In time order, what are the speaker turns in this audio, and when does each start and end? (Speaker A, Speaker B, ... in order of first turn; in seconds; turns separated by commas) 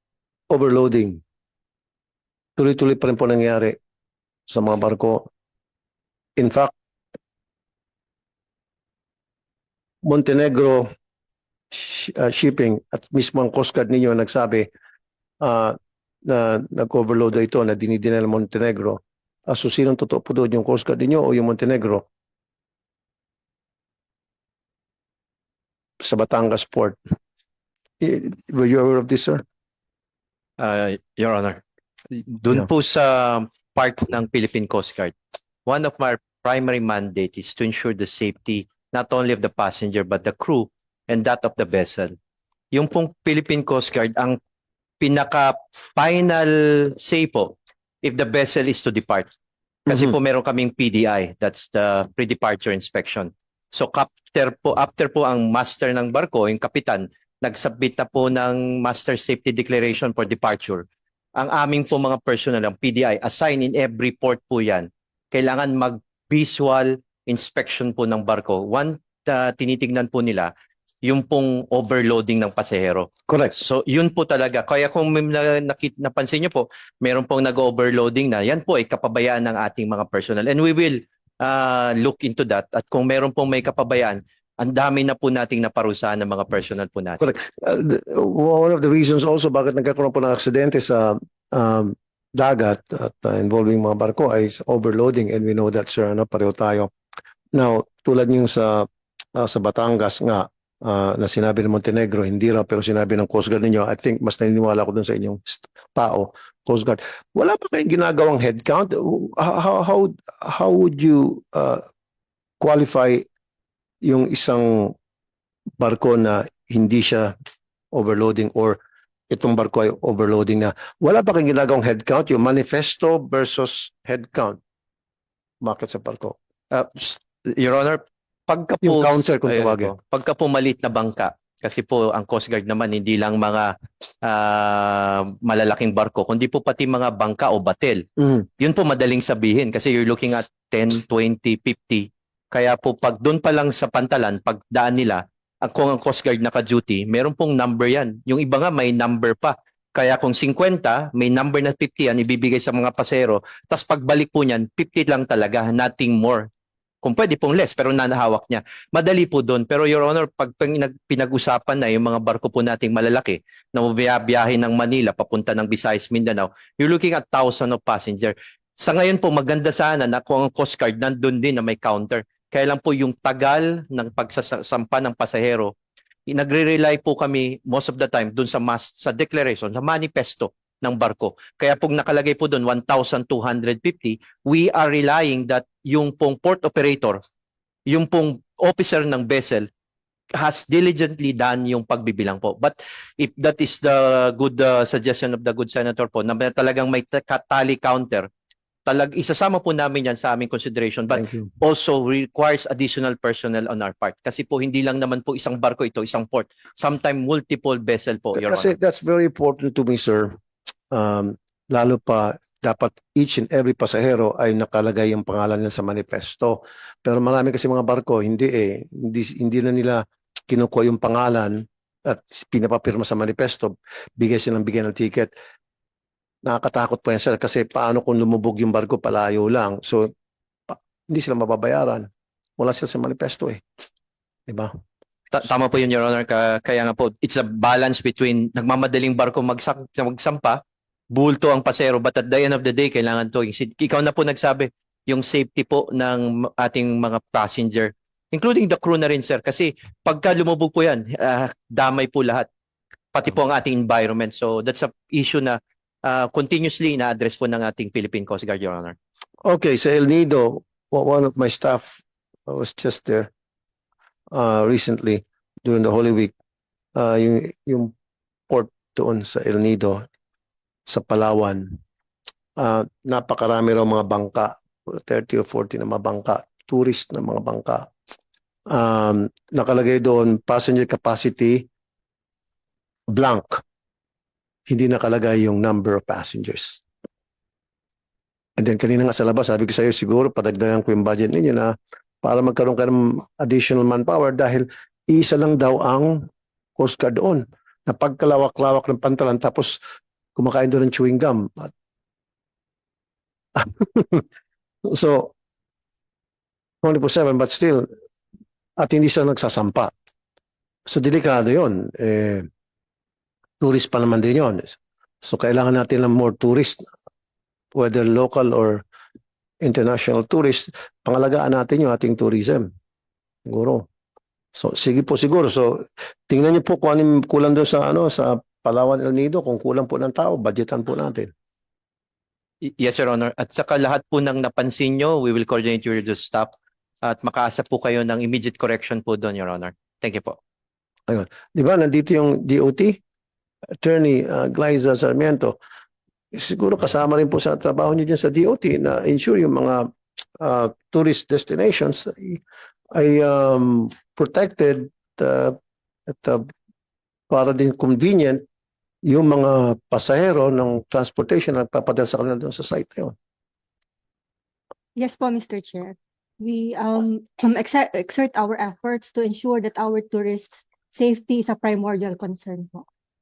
Speaker A: 0.5-1.2, Speaker A: 2.6-3.8, Speaker A: 4.5-5.3, Speaker A: 6.4-6.7, Speaker A: 10.0-10.9, Speaker A: 11.7-14.7, Speaker A: 15.4-22.1, Speaker A: 26.0-27.0, Speaker A: 28.0-29.4, Speaker B: 30.6-35.1, Speaker B: 35.7-42.1, Speaker B: 42.7-44.4, Speaker B: 45.0-49.3, Speaker B: 49.9-60.9, Speaker A: 49.9-50.1, Speaker B: 61.4-70.5, Speaker B: 71.0-87.2, Speaker A: 73.3-73.6, Speaker A: 87.2-96.9, Speaker A: 97.5-111.8, Speaker A: 112.6-113.2, Speaker A: 114.0-114.9, Speaker A: 115.8-117.3, Speaker A: 117.9-124.6, Speaker A: 125.6-126.4, Speaker B: 126.7-133.7, Speaker A: 128.8-129.9, Speaker B: 134.2-138.1, Speaker B: 138.6-156.5, Speaker B: 157.0-175.7, Speaker B: 176.3-187.2, Speaker B: 187.9-189.7, Speaker B: 190.4-198.3, Speaker B: 198.9-208.7, Speaker A: 201.1-201.5, Speaker A: 208.4-210.4, Speaker A: 210.9-225.3, Speaker A: 226.4-230.1, Speaker A: 230.7-233.6, Speaker B: 235.3-240.6, Speaker B: 241.1-252.5, Speaker B: 253.1-258.9, Speaker A: 259.4-263.3, Speaker A: 264.3-266.3, Speaker A: 266.9-267.9, Speaker A: 268.5-270.1, Speaker A: 270.9-271.8, Speaker A: 272.6-277.9, Speaker A: 278.7-281.7, Speaker A: 283.1-283.6, Speaker A: 284.7-286.8, Speaker A: 288.6-296.3, Speaker A: 296.8-299.8, Speaker A: 300.4-301.7, Speaker A: 303.6-304.2, Speaker A: 304.9-305.3, Speaker A: 306.8-307.9, Speaker A: 308.8-309.9, Speaker A: 310.9-312.5, Speaker A: 313.6-316.9, Speaker A: 317.7-318.8, Speaker A: 319.6-322.7, Speaker A: 323.5-323.9, Speaker A: 324.6-331.3, Speaker B: 332.6-336.5, Speaker B: 337.1-340.4, Speaker A: 341.1-343.0, Speaker A: 343.8-345.6, Speaker A: 346.3-349.9, Speaker A: 350.4-352.4, Speaker A: 352.9-355.6, Speaker A: 356.1-356.5, Speaker A: 357.3-358.4, Speaker A: 359.1-363.1, Speaker C: 365.0-372.9